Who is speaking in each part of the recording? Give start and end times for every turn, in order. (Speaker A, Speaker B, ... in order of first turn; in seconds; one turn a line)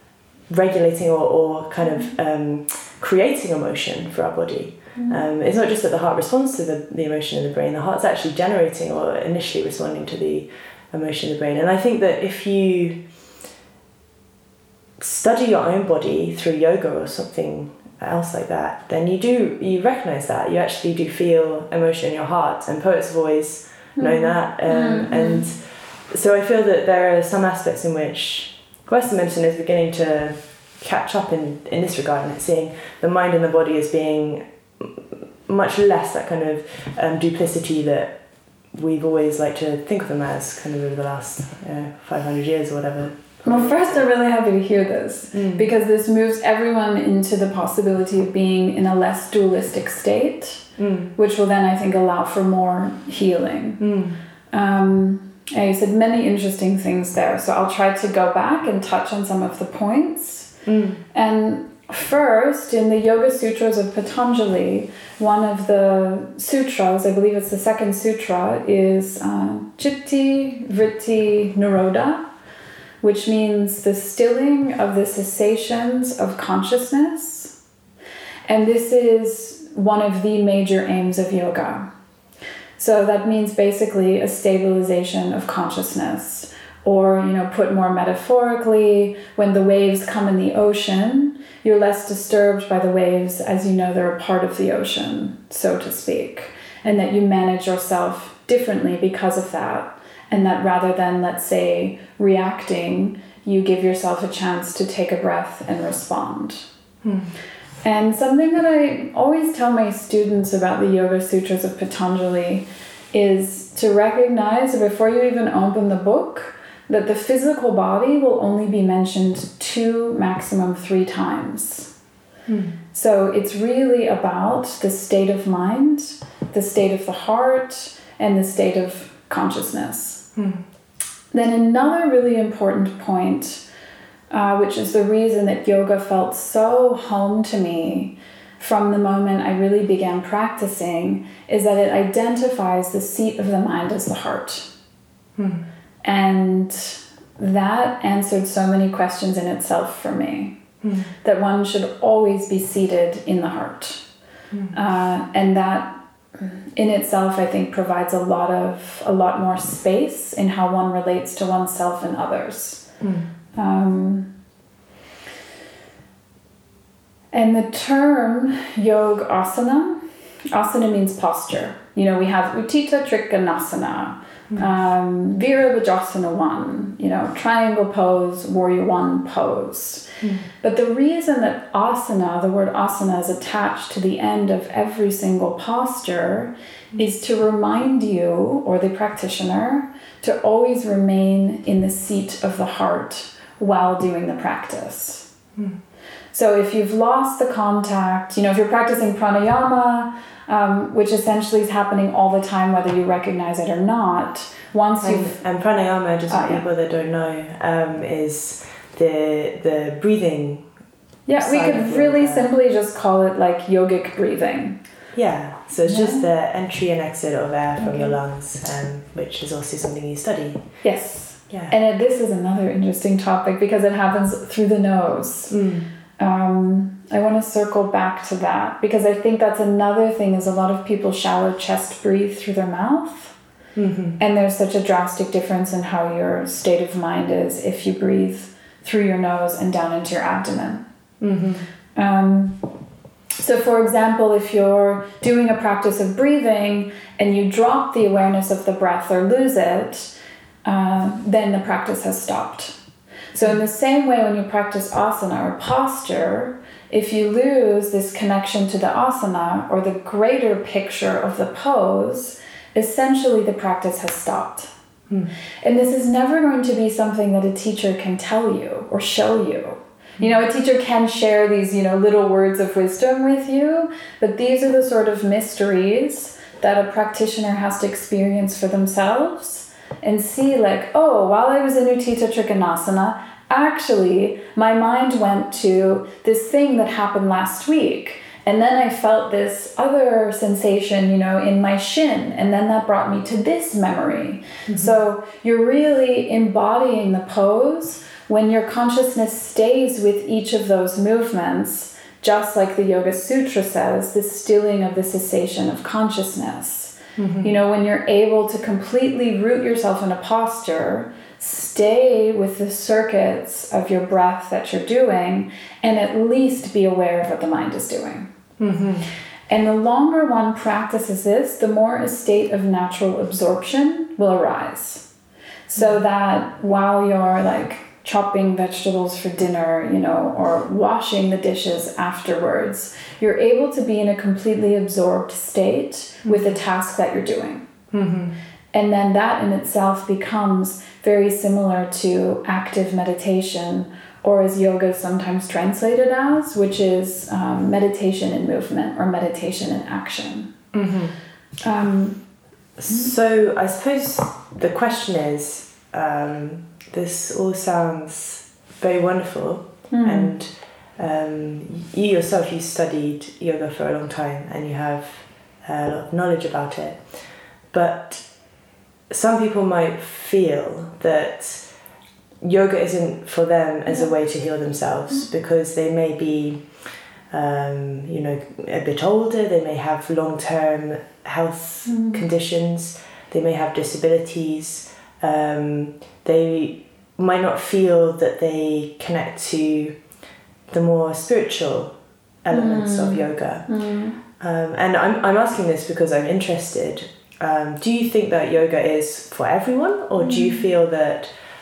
Speaker A: 0.5-13.0
Speaker A: 15.0-38.1
Speaker B: 24.0-25.4
Speaker A: 38.7-44.0
Speaker B: 43.4-53.9
Speaker A: 45.3-45.7
Speaker A: 50.8-51.1
Speaker A: 53.8-54.2
Speaker B: 54.5-60.5
Speaker A: 60.6-61.0
Speaker B: 61.1-72.2
Speaker B: 73.0-77.5
Speaker B: 78.5-81.8
Speaker B: 82.8-106.6
Speaker A: 107.0-107.3
Speaker B: 107.8-121.9
Speaker A: 122.5-122.7
Speaker B: 122.9-130.3
Speaker A: 130.3-130.6
Speaker B: 131.3-133.6
Speaker B: 134.3-144.7
Speaker A: 145.4-145.6
Speaker B: 146.0-150.6
Speaker A: 150.8-151.1
Speaker B: 151.2-154.0
Speaker B: 154.7-162.8
Speaker A: 163.0-163.2
Speaker B: 163.6-164.3
Speaker B: 167.3-170.0
Speaker B: 170.5-180.1
Speaker B: 180.6-195.3
Speaker B: 196.3-205.4
Speaker A: 205.0-210.6
Speaker B: 206.3-206.6
Speaker B: 211.3-214.8
Speaker A: 211.4-212.5
Speaker A: 215.1-220.6
Speaker B: 215.8-216.3
Speaker B: 217.8-218.1
Speaker B: 220.8-225.6
Speaker A: 225.5-225.8
Speaker B: 226.2-233.3
Speaker A: 233.8-234.2
Speaker B: 234.2-240.8
Speaker A: 241.2-241.6
Speaker B: 241.9-242.6
Speaker B: 243.4-250.1
Speaker B: 250.6-252.7
Speaker B: 253.3-264.7
Speaker B: 265.6-318.2
Speaker A: 307.2-307.5
Speaker A: 318.6-319.0
Speaker B: 319.5-325.0
Speaker B: 325.7-337.6
Speaker A: 336.2-336.6
Speaker A: 337.9-338.3
Speaker B: 338.7-350.5
Speaker A: 350.7-351.1
Speaker B: 351.6-352.2
Speaker A: 352.8-367.0
Speaker B: 359.9-360.3
Speaker A: 367.7-368.2
Speaker A: 369.1-371.6
Speaker A: 372.4-376.6
Speaker A: 377.3-389.9
Speaker B: 381.9-382.2
Speaker A: 390.7-391.9
Speaker A: 392.4-393.7
Speaker B: 392.5-394.2
Speaker A: 394.3-401.3
Speaker B: 400.2-400.6